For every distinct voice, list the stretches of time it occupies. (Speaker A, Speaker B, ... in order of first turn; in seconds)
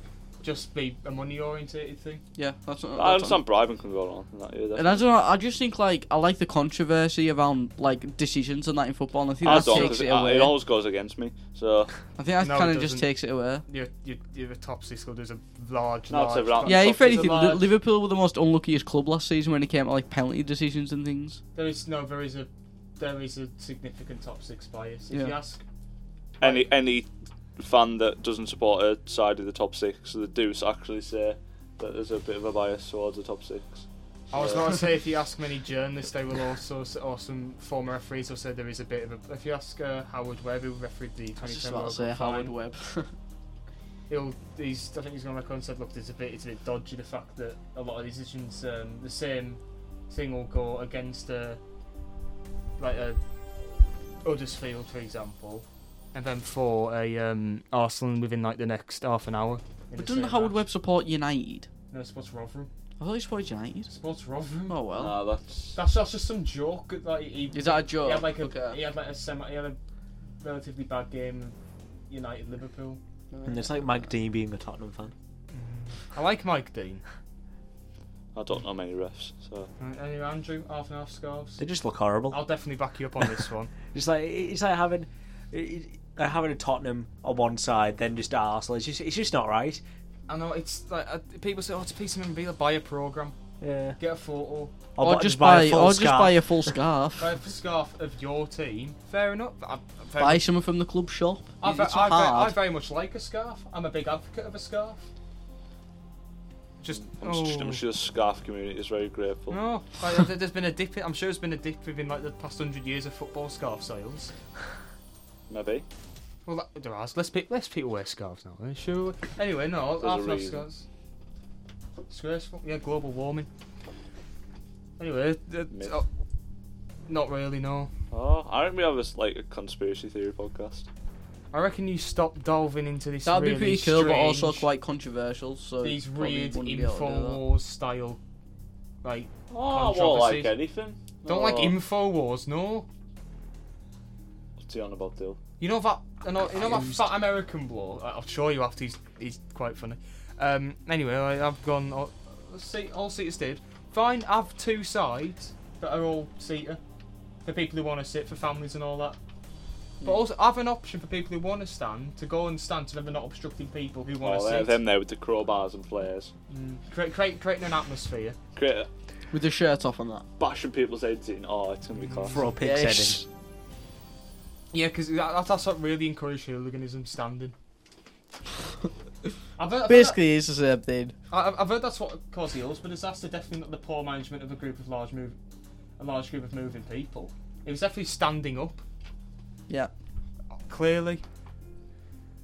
Speaker A: 0.4-2.2, 9.4-10.0, 12.4-13.1, 13.7-17.7, 21.6-25.6, 26.4-26.7, 34.3-42.5, 44.1-51.6, 52.8-53.2, 54.2-60.6, 61.9-62.7, 63.9-64.8, 65.8-69.8, 70.4-71.6, 72.1-73.0, 75.5-77.0, 79.8-81.6, 82.3-83.7, 90.3-93.4, 94.0-94.8, 97.2-100.4, 101.6-105.1, 106.8-107.8, 109.5-114.3, 116.5-120.8, 122.1-123.5, 125.0-126.1, 127.1-127.9, 131.5-134.7, 135.8-138.2, 139.0-140.5, 141.2-142.9, 145.6-156.8, 157.4-159.2, 160.0-164.8, 166.5-168.4, 172.0-172.4, 174.7-177.6, 179.6-180.2, 181.3-185.4, 186.0-188.8, 190.7-191.2
Speaker B: 2.4-3.4, 4.8-10.6, 12.2-13.6, 16.6-21.4, 25.1-25.4, 41.4-43.1, 60.0-61.7, 63.0-63.9, 64.7-65.2, 67.5-68.8, 73.3-74.1, 95.0-97.3, 100.2-102.5, 133.2-137.4, 146.6-147.0, 169.3-170.2, 172.6-173.2, 179.9-181.2
Speaker C: 3.0-5.0, 9.4-11.9, 16.1-17.4, 26.4-34.7, 65.0-65.8, 78.3-79.7, 106.9-109.6, 115.5-115.8, 120.0-120.7, 125.7-126.0, 128.1-130.9, 139.5-141.8, 144.6-145.4, 164.2-166.3, 168.6-168.9, 170.4-172.5
Speaker D: 73.5-75.1, 81.6-82.4, 83.9-89.8, 93.6-94.0, 95.0-96.7, 172.3-173.3